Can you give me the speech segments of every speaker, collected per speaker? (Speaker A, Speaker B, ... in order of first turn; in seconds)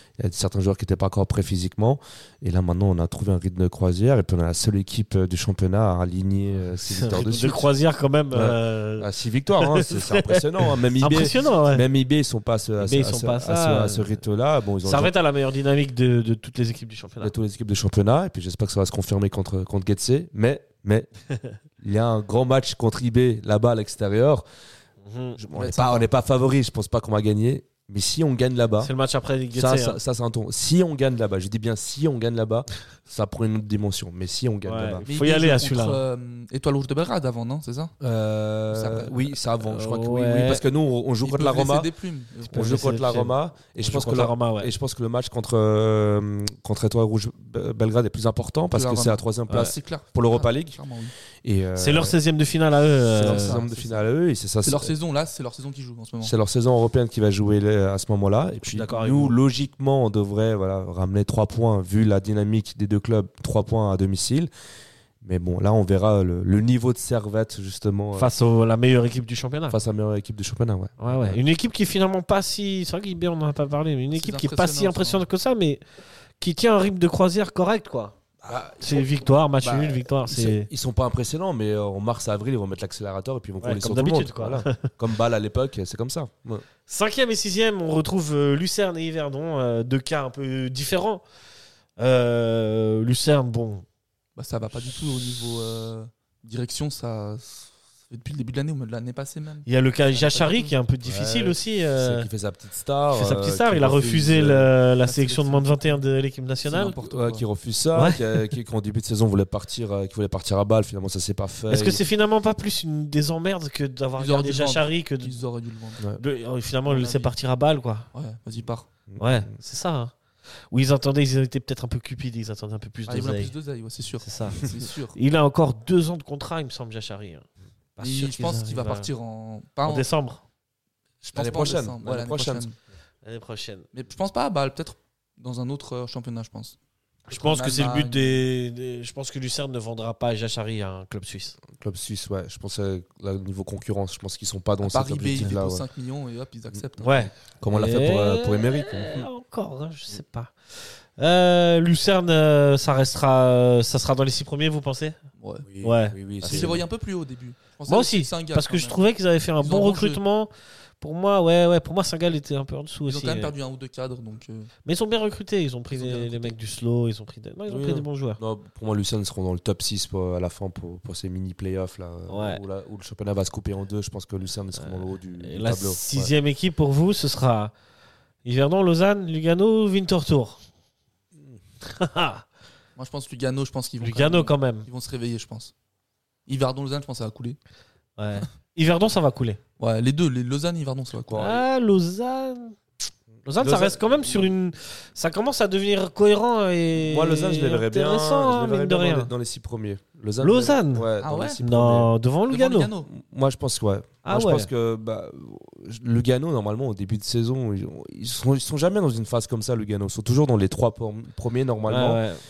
Speaker A: 0.2-7.7, 8.3-15.1, 17.2-21.1, 21.8-24.4, 25.4-28.9, 29.5-35.1, 38.0-41.9, 42.5-50.8, 51.4-52.2, 53.1-54.9, 56.2-64.5, 65.2-68.3, 69.7-71.4, 78.4-79.1, 79.6-86.7, 101.0-104.7, 107.0-112.0, 119.1-119.5, 131.2-132.7, 141.7-145.8, 147.6-149.3, 155.7-156.8, 167.7-176.3, 191.2-191.6, 193.6-194.5, 197.0-202.1, 203.1-212.2
Speaker B: 6.8-11.9, 12.8-14.1, 14.8-17.3, 21.3-21.6, 25.0-25.4, 28.8-30.0, 34.7-36.0, 39.6-40.6, 42.5-44.7, 51.8-53.6, 58.6-59.4, 68.2-69.8, 71.0-75.8, 76.4-78.2, 78.8-80.7, 83.6-84.9, 86.9-91.2, 92.0-93.8, 99.7-102.3, 103.1-107.0, 108.0-108.4, 111.7-115.4, 116.2-118.1, 119.2-120.2, 120.7-123.5, 124.2-129.1, 129.9-130.4, 133.2-133.8, 137.3-141.6, 147.0-155.2, 155.8-156.8, 157.9-163.5, 164.9-168.4, 172.3-172.6, 174.8-177.7, 178.4-180.6, 181.8-182.4, 184.0-184.9, 188.2-189.6, 191.4-192.8, 193.4-199.3, 200.4-201.1, 201.6-202.9, 204.2-204.7, 211.9-212.4
Speaker C: 25.5-26.1, 35.1-37.9, 38.7-39.1, 41.2-42.9, 48.7-51.1, 53.2-54.1, 54.6-56.3, 74.1-75.3, 94.4-100.7, 105.0-106.0, 106.7-107.5, 114.2-116.0, 116.9-117.3, 118.1-118.9, 123.1-125.2, 128.0-130.1, 131.3-132.8, 133.9-136.8, 137.3-138.4, 144.8-147.3, 155.4-155.7, 156.4-159.0, 159.6-160.2, 163.1-164.7, 165.9-166.6, 183.0-185.7, 186.5-187.6, 189.8-191.5, 201.2-201.6, 202.5-203.1